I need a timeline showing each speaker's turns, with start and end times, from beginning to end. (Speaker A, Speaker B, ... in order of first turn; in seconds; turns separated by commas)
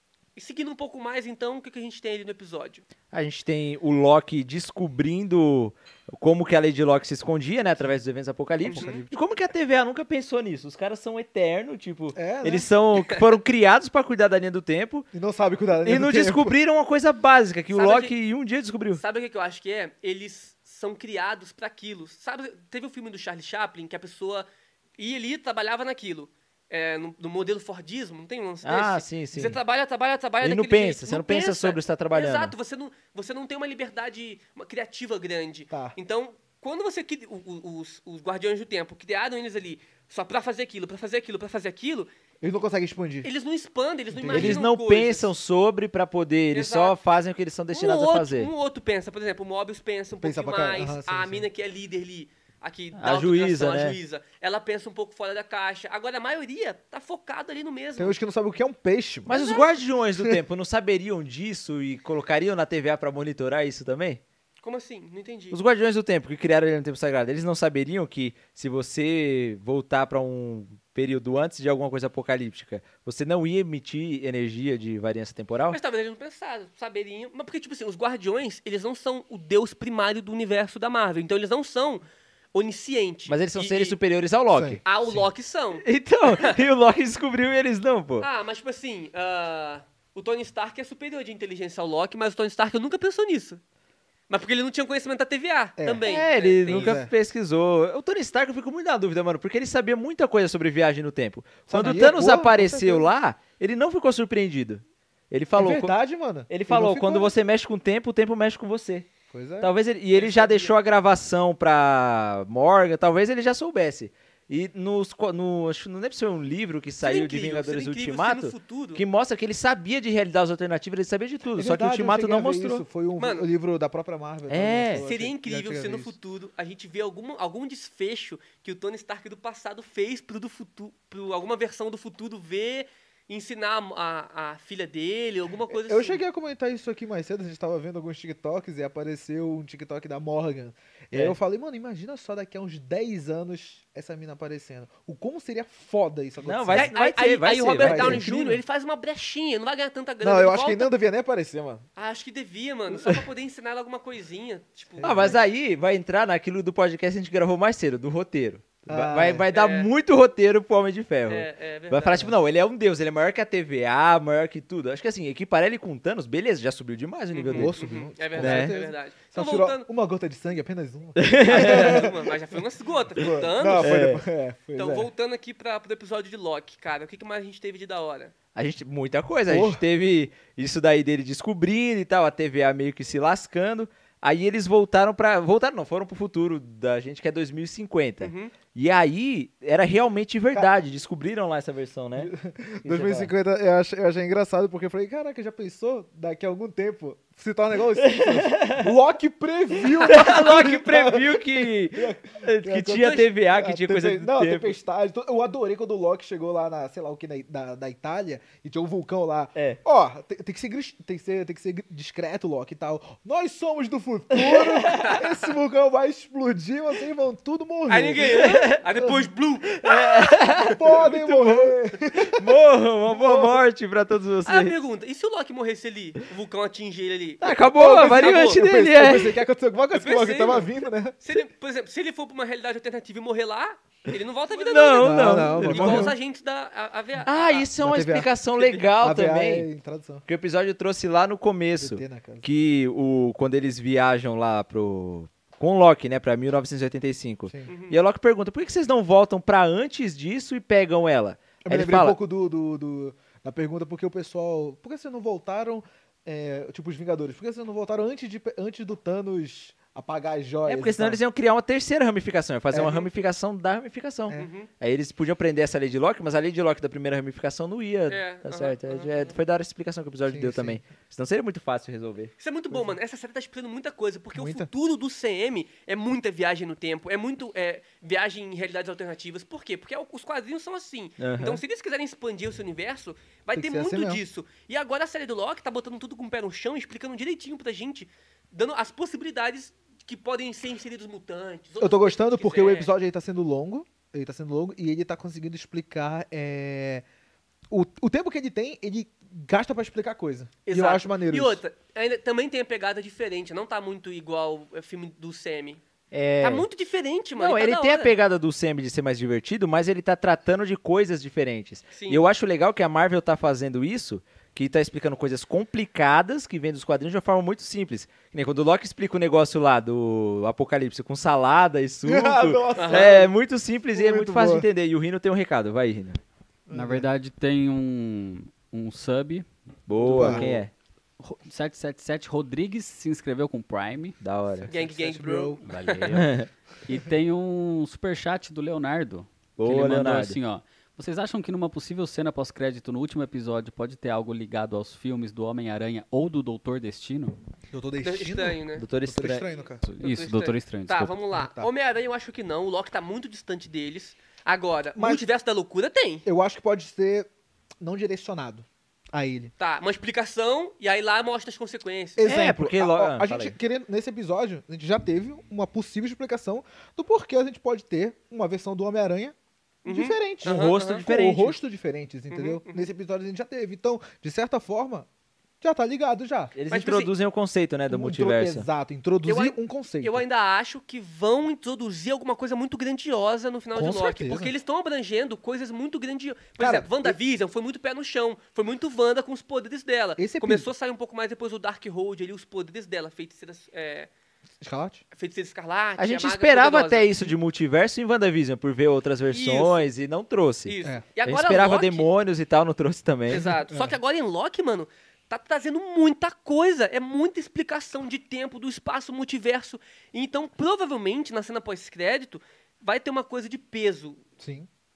Speaker A: 0.3-2.8, Speaker B: 3.1-15.1, Speaker A: 8.6-9.0, Speaker C: 8.7-9.1, Speaker C: 12.1-12.7, Speaker A: 12.9-13.2, Speaker C: 15.1-16.6, Speaker B: 15.8-19.0, Speaker A: 17.7-18.1, Speaker A: 19.0-42.1, Speaker B: 28.6-29.6, Speaker B: 30.4-32.5, Speaker C: 35.7-36.0, Speaker C: 42.4-43.3, Speaker A: 43.2-45.3, Speaker C: 44.1-44.6, Speaker B: 44.3-48.5, Speaker A: 46.5-47.0, Speaker A: 47.7-58.2, Speaker C: 50.2-51.5, Speaker B: 53.0-54.0, Speaker C: 58.0-59.4, Speaker B: 59.2-64.2, Speaker A: 59.3-59.7, Speaker A: 64.6-65.6, Speaker B: 65.5-75.8, Speaker A: 75.7-84.0, Speaker B: 83.3-84.8, Speaker C: 84.5-85.2, Speaker A: 84.8-86.6, Speaker B: 85.8-88.3, Speaker A: 88.2-93.6, Speaker A: 94.3-97.0, Speaker C: 95.8-96.1, Speaker B: 96.0-105.9, Speaker C: 96.6-97.1, Speaker C: 101.7-103.1, Speaker C: 105.5-107.3, Speaker B: 106.5-109.1, Speaker C: 109.3-109.7, Speaker B: 109.6-122.8, Speaker A: 110.1-110.7, Speaker A: 117.0-119.0, Speaker C: 121.5-126.2, Speaker A: 123.2-123.5, Speaker B: 124.5-125.0, Speaker A: 125.0-136.2, Speaker C: 135.7-146.9, Speaker B: 146.4-148.3, Speaker A: 146.7-150.9, Speaker C: 147.8-148.6, Speaker C: 150.2-151.8, Speaker A: 151.9-155.4, Speaker C: 155.0-155.4, Speaker B: 155.0-168.7, Speaker C: 158.9-159.4, Speaker A: 159.5-159.9, Speaker A: 161.3-162.3, Speaker A: 167.3-169.9, Speaker C: 167.5-172.4, Speaker B: 171.2-172.1, Speaker A: 171.4-174.0, Speaker C: 173.2-175.1, Speaker B: 173.8-174.2, Speaker A: 174.8-178.3, Speaker B: 178.5-192.3, Speaker C: 179.5-179.8, Speaker A: 188.2-188.5, Speaker C: 192.2-219.3, Speaker B: 192.8-193.3, Speaker B: 198.0-198.9, Speaker B: 199.9-204.8, Speaker B: 214.5-215.2, Speaker A: 214.9-215.3, Speaker A: 217.9-220.7, Speaker B: 218.2-218.8, Speaker B: 219.8-224.8, Speaker C: 220.7-222.4, Speaker C: 223.1-223.6, Speaker A: 224.4-228.6, Speaker B: 227.4-229.4, Speaker C: 227.7-231.2, Speaker A: 229.9-230.7, Speaker A: 231.2-237.7, Speaker B: 234.1-236.1, Speaker C: 235.0-236.1, Speaker B: 237.2-239.7, Speaker C: 237.8-238.3, Speaker A: 238.5-238.9, Speaker C: 239.0-240.2, Speaker B: 240.2-252.2, Speaker C: 241.8-242.4, Speaker A: 247.7-248.0, Speaker C: 251.6-261.2, Speaker B: 260.6-272.3, Speaker C: 262.7-263.0, Speaker A: 262.8-263.1, Speaker A: 264.3-264.7, Speaker A: 268.1-269.3, Speaker C: 270.2-270.8, Speaker A: 272.4-292.9, Speaker C: 272.7-273.0, Speaker C: 274.3-274.7, Speaker B: 281.2-281.6, Speaker C: 283.5-284.2, Speaker C: 291.8-297.0, Speaker C: 297.7-301.6, Speaker A: 300.6-305.8, Speaker B: 306.1-306.6, Speaker A: 306.4-308.1, Speaker B: 307.4-326.2, Speaker A: 311.9-312.2, Speaker C: 322.0-323.3, Speaker A: 322.7-323.1, Speaker C: 323.9-324.7, Speaker C: 326.7-327.1, Speaker D: 326.7-330.6, Speaker B: 329.9-330.7, Speaker C: 330.1-330.5, Speaker D: 331.2-334.2, Speaker B: 334.2-334.7, Speaker C: 334.6-335.6, Speaker A: 334.7-336.2, Speaker D: 335.6-347.4, Speaker B: 336.1-336.5, Speaker B: 339.6-340.4, Speaker C: 347.7-349.8, Speaker A: 348.0-348.9, Speaker B: 348.8-349.5, Speaker D: 349.8-351.2, Speaker A: 350.0-356.2, Speaker C: 351.3-351.7, Speaker C: 354.9-355.2, Speaker C: 356.2-357.3, Speaker C: 357.8-359.5, Speaker A: 359.6-362.3, Speaker C: 362.2-375.1, Speaker B: 362.2-363.6, Speaker A: 369.8-371.0, Speaker B: 370.4-371.6, Speaker A: 372.3-372.9, Speaker C: 375.6-376.5, Speaker B: 376.5-378.6, Speaker A: 376.7-377.1, Speaker C: 377.9-380.2, Speaker A: 379.2-394.1, Speaker C: 383.7-384.5, Speaker C: 386.6-387.2, Speaker C: 390.2-390.7, Speaker C: 394.6-395.0, Speaker A: 395.1-397.3, Speaker B: 396.0-403.5, Speaker A: 399.3-399.8, Speaker A: 400.7-402.1, Speaker A: 403.3-414.2, Speaker C: 403.3-404.0, Speaker C: 414.4-414.7